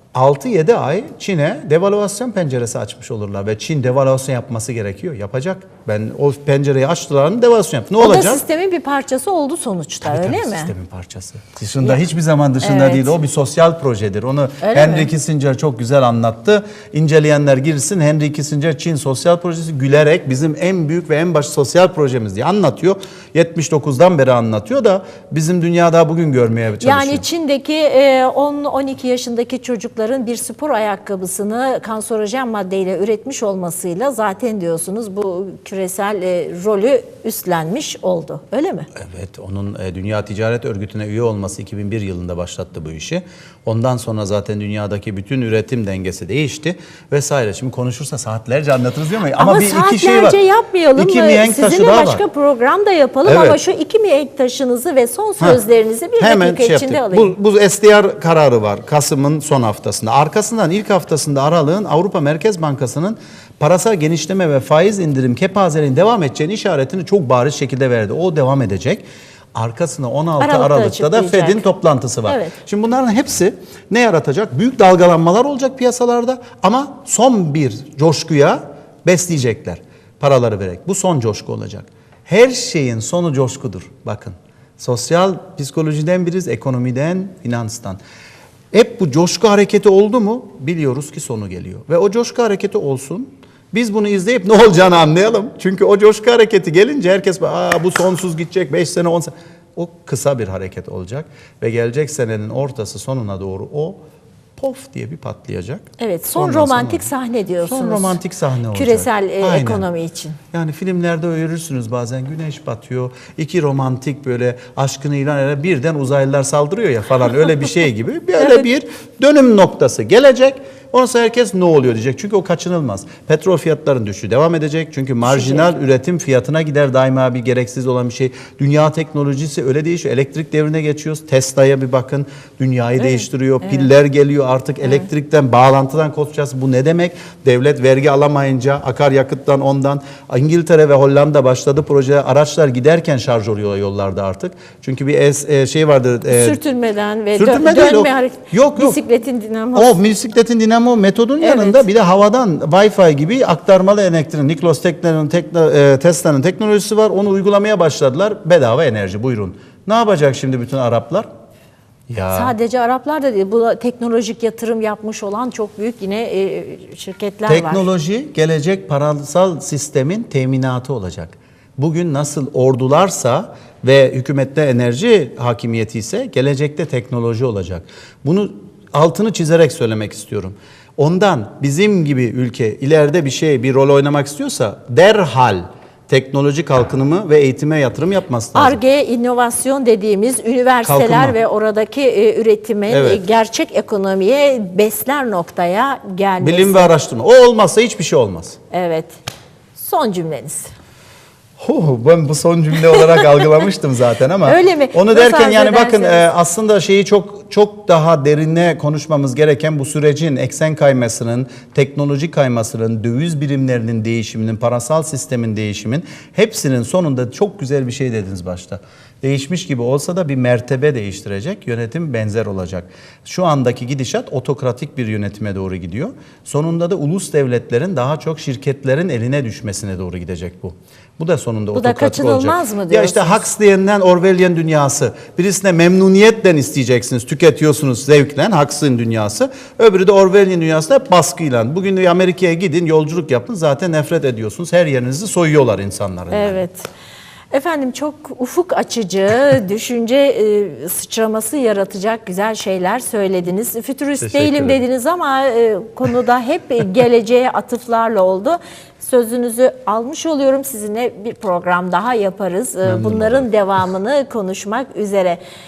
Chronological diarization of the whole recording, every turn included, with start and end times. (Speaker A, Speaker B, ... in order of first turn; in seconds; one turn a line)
Speaker A: 0.1-8.4
Speaker B: 8.0-10.7
Speaker A: 10.0-27.2
Speaker B: 12.6-13.2
Speaker B: 14.6-15.1
Speaker B: 26.8-38.9
Speaker A: 38.9-50.4
Speaker B: 49.4-57.3
Speaker A: 51.0-52.2
Speaker A: 53.2-53.6
Speaker A: 56.2-88.0
Speaker B: 70.4-71.7
Speaker B: 72.3-72.6
Speaker A: 88.7-104.0
Speaker A: 104.6-107.1
Speaker B: 106.0-108.2
Speaker A: 107.6-109.9
Speaker B: 108.7-110.4
Speaker A: 110.5-146.6
Speaker B: 125.2-125.7
Speaker B: 133.0-133.9
Speaker B: 146.3-150.0
Speaker A: 147.3-149.0
Speaker A: 149.8-161.3
Speaker B: 151.4-151.8
Speaker A: 162.1-162.5
Speaker B: 162.3-167.9
Speaker A: 167.5-188.8
Speaker B: 188.6-196.9
Speaker A: 190.8-191.4
Speaker A: 192.9-193.2
Speaker A: 196.4-198.6
Speaker B: 198.7-199.2
Speaker B: 199.8-200.7
Speaker A: 201.6-246.6
Speaker B: 203.0-203.4
Speaker B: 204.4-206.3
Speaker B: 231.7-233.5
Speaker B: 246.3-246.9
Speaker B: 247.5-265.4
Speaker A: 254.2-254.8
Speaker A: 262.9-263.5